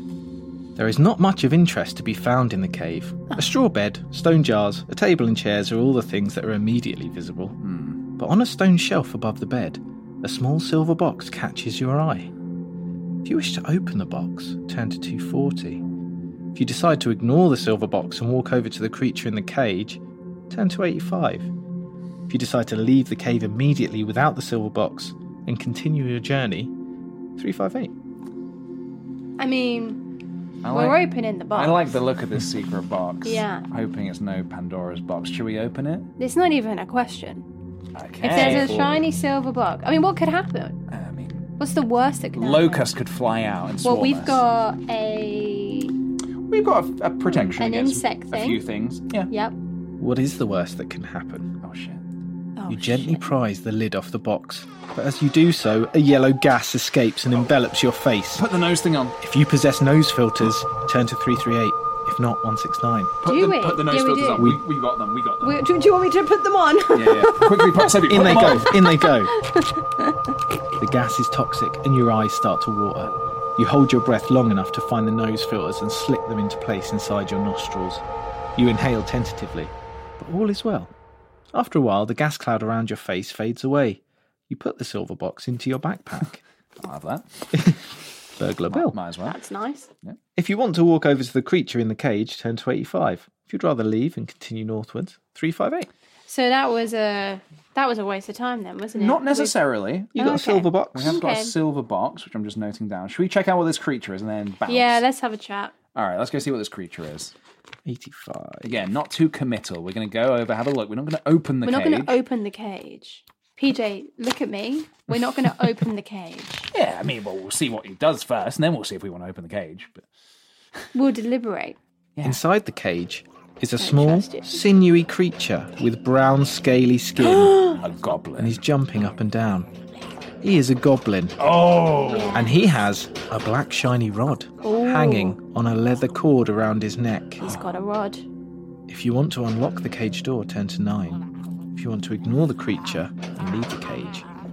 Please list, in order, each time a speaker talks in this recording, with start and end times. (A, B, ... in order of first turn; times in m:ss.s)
0:00.8-0:07.6 A
0:07.6-0:08.0 B
0:08.2-0:12.3 A
0:13.2-0:15.8 A
0:16.5-0:21.5 A
0:22.3-0:26.7 A
0:27.4-0:27.9 A
0:29.4-0:30.0 C
0:30.6-0:36.1 B
0:30.7-0:32.0 C
0:33.2-0:33.6 C
0:36.2-0:37.4 C
0:37.9-0:38.8 B
0:38.2-0:40.8 C
0:38.2-0:39.0 A
0:40.9-0:41.5 B
0:41.6-0:42.8 C
0:42.4-0:44.4 B
0:43.8-0:45.9 C
0:46.5-0:49.3 B
0:47.6-0:48.6 C
0:49.3-0:49.6 C
0:50.0-0:51.5 A
0:51.6-0:52.0 B
0:52.6-0:53.2 C
0:52.7-0:58.5 A
0:58.4-0:59.2 B
0:59.2-1:03.2 A
1:03.2-1:05.6 B
1:03.2-1:04.6 C
1:04.4-1:04.6 A
1:05.4-1:10.2 C
1:06.9-1:08.7 B
1:08.1-1:09.3 A
1:10.8-1:18.0 A
1:18.6-1:20.9 A
1:21.5-1:26.4 A
1:26.8-1:27.8 B
1:27.5-1:27.8 A
1:28.4-1:29.0 A
1:28.7-1:29.4 B
1:29.2-1:29.9 C
1:30.4-1:35.9 A
1:36.3-1:39.5 C
1:39.0-1:40.2 B
1:40.2-1:41.2 A
1:40.2-1:41.5 C
1:40.9-1:45.0 B
1:44.7-1:45.7 C
1:45.9-1:47.3 B
1:47.8-1:48.8 A
1:48.6-1:52.2 B
1:51.6-1:56.7 C
1:56.7-2:00.0 B
2:00.9-2:01.8 C
2:02.2-2:07.5 A
2:03.8-2:04.6 C
2:07.2-2:07.8 C
2:07.7-2:08.6 B
2:08.4-2:09.7 A
2:10.4-2:11.4 A
2:11.4-2:12.4 B
2:12.1-2:12.6 C
2:12.3-2:17.5 A
2:14.6-2:15.4 C
2:17.4-2:18.2 C
2:18.9-2:24.3 A